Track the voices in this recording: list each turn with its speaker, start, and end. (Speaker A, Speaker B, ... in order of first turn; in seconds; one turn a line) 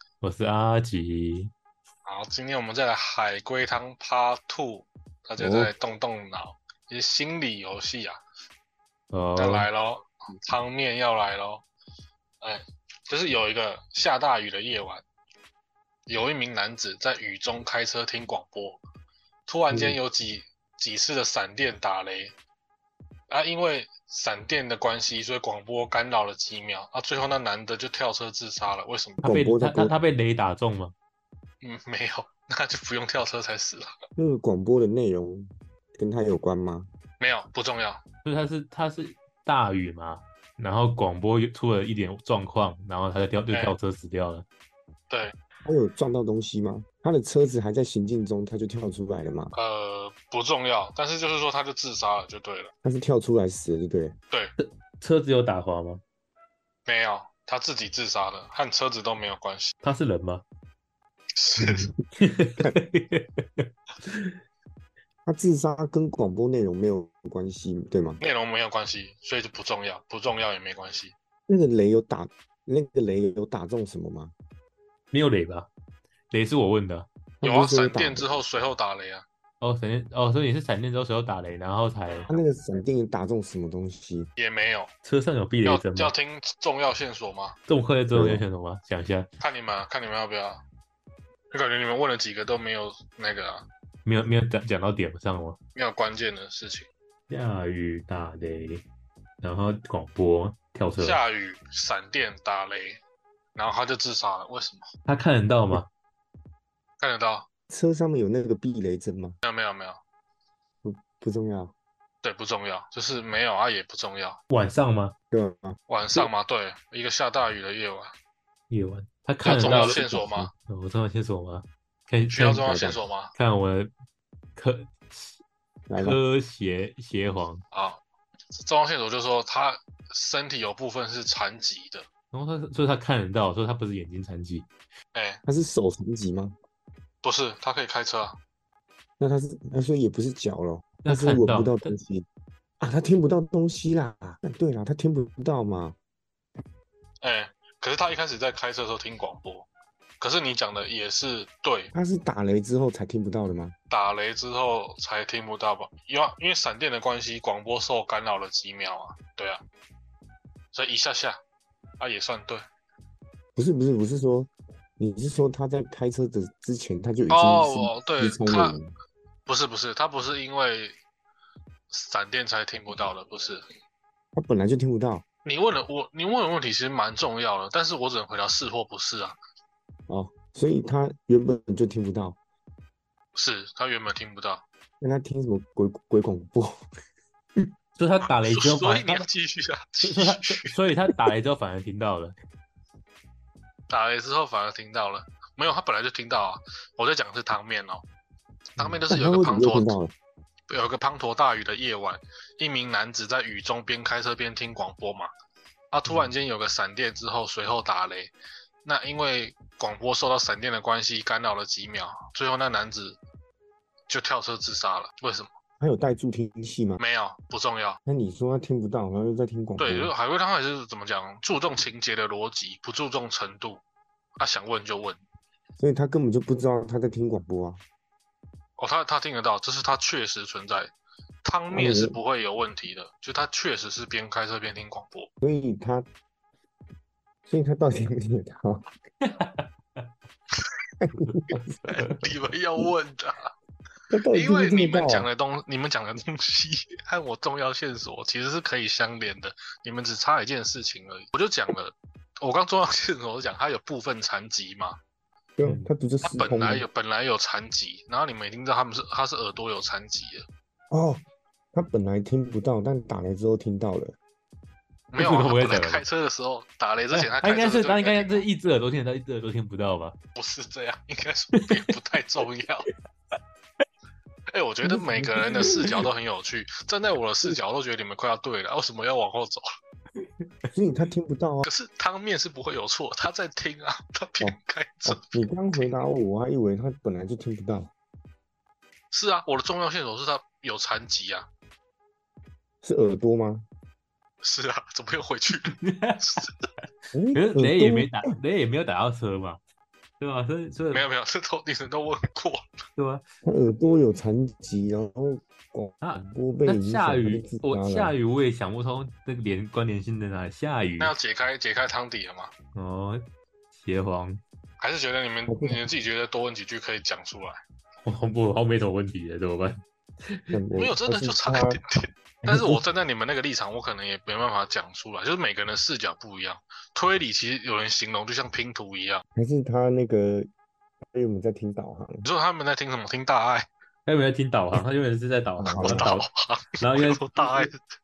Speaker A: 0.2-1.5
Speaker B: 2.0-8.2
Speaker C: 5.4-5.7
Speaker A: 9.1-9.7
Speaker B: 9.3-11.6
Speaker B: 12.4-15.0
Speaker B: 16.1-18.8
Speaker B: 19.5-22.3
Speaker C: 19.7-20.0
Speaker B: 23.3-29.2
Speaker A: 29.2-30.9
Speaker C: 29.2-29.9
Speaker B: 31.6-33.9
Speaker C: 34.1-36.9
Speaker B: 37.2-38.0
Speaker A: 38.2-44.5
Speaker B: 45.1-45.3
Speaker C: 45.6-49.5
Speaker B: 49.5-52.7
Speaker C: 52.8-54.1
Speaker A: 54.6-56.0
Speaker B: 56.9-59.7
Speaker A: 59.8-60.4
Speaker B: 61.4-61.9
Speaker A: 61.6-64.4
Speaker C: 65.3-68.2
Speaker B: 68.2-71.1
Speaker C: 71.5-74.3
Speaker A: 75.1-75.7
Speaker A: 76.3-77.1
Speaker C: 77.4-78.3
Speaker B: 77.4-79.2
Speaker A: 79.6-82.3
Speaker C: 82.3-84.3
Speaker B: 84.4-84.9
Speaker A: 85.0-86.1
Speaker B: 85.7-87.6
Speaker A: 87.7-89.3
Speaker C: 88.1-88.4
Speaker B: 89.4-90.6
Speaker B: 91.5-93.7
Speaker A: 94.0-95.6
Speaker B: 95.8-96.9
Speaker A: 97.3-98.8
Speaker A: 99.4-101.2
Speaker B: 101.0-103.0
Speaker B: 103.5-104.9
Speaker A: 105.1-105.9
Speaker B: 107.0-107.5
Speaker C: 107.7-109.4
Speaker B: 109.4-110.0
Speaker C: 110.8-111.7
Speaker B: 112.2-114.4
Speaker A: 114.5-115.2
Speaker C: 115.3-116.3
Speaker B: 115.9-118.2
Speaker A: 118.7-122.7
Speaker B: 119.4-120.5
Speaker C: 119.5-120.5
Speaker B: 122.3-123.3
Speaker C: 122.7-123.0
Speaker A: 123.3-123.9
Speaker A: 124.5-125.4
Speaker C: 125.9-126.2
Speaker A: 126.0-127.6
Speaker B: 127.7-128.0
Speaker B: 128.6-132.1
Speaker A: 132.3-134.7
Speaker B: 135.1-135.4
Speaker C: 135.5-136.5
Speaker B: 137.2-138.4
Speaker C: 139.2-142.2
Speaker A: 141.0-141.9
Speaker C: 142.8-146.0
Speaker B: 147.2-149.7
Speaker B: 150.2-151.9
Speaker C: 151.9-153.7
Speaker B: 153.9-159.6
Speaker B: 160.7-161.4
Speaker B: 162.0-162.6
Speaker C: 163.6-168.9
Speaker B: 167.3-168.8
Speaker B: 169.5-171.0
Speaker B: 171.9-173.6
Speaker C: 174.3-175.2
Speaker B: 175.4-179.4
Speaker C: 180.1-182.4
Speaker B: 183.3-184.7
Speaker C: 185.0-186.8
Speaker A: 188.0-189.2
Speaker B: 188.5-190.7
Speaker A: 190.0-192.3
Speaker B: 193.9-198.0
Speaker A: 198.8-199.1
Speaker B: 198.8-200.0
Speaker C: 199.1-200.1
Speaker B: 200.7-205.3
Speaker B: 205.9-208.3
Speaker B: 208.8-213.2
Speaker B: 214.1-215.5
Speaker C: 215.8-217.0
Speaker B: 217.0-218.0
Speaker C: 218.1-220.1
Speaker B: 219.8-223.8
Speaker B: 224.4-225.2
Speaker C: 225.8-227.8
Speaker B: 228.8-230.9
Speaker B: 231.4-235.3
Speaker C: 231.7-232.2
Speaker C: 235.4-236.1
Speaker C: 237.5-238.9
Speaker A: 239.2-239.7
Speaker C: 241.0-241.8
Speaker A: 241.3-242.2
Speaker B: 241.9-243.5
Speaker C: 244.1-245.3
Speaker B: 244.3-255.0
Speaker C: 255.6-256.9
Speaker B: 256.2-260.4
Speaker C: 260.9-261.2
Speaker C: 261.7-264.2
Speaker B: 265.1-268.4
Speaker A: 265.2-266.0
Speaker A: 267.1-270.2
Speaker B: 270.4-272.9
Speaker B: 274.5-279.7
Speaker C: 274.9-276.0
Speaker C: 280.7-281.7
Speaker B: 281.6-285.9
Speaker C: 284.4-287.9
Speaker B: 289.1-291.5
Speaker C: 292.8-293.7
Speaker B: 294.4-296.5
Speaker A: 295.7-296.4
Speaker C: 297.1-298.1
Speaker A: 297.4-299.6
Speaker A: 300.2-301.0
Speaker B: 300.9-302.7
Speaker A: 302.9-303.2
Speaker C: 303.4-308.1
Speaker A: 306.0-311.1
Speaker B: 311.0-312.5
Speaker A: 312.8-313.2
Speaker A: 313.8-314.4
Speaker B: 314.8-317.6
Speaker C: 315.5-315.8
Speaker A: 318.1-320.6
Speaker C: 320.5-321.8
Speaker B: 320.8-329.2
Speaker C: 322.4-322.8
Speaker C: 329.4-330.5
Speaker C: 331.1-332.2
Speaker B: 332.2-333.7
Speaker A: 334.1-336.3
Speaker C: 335.6-336.1
Speaker B: 335.8-337.8
Speaker A: 336.8-337.7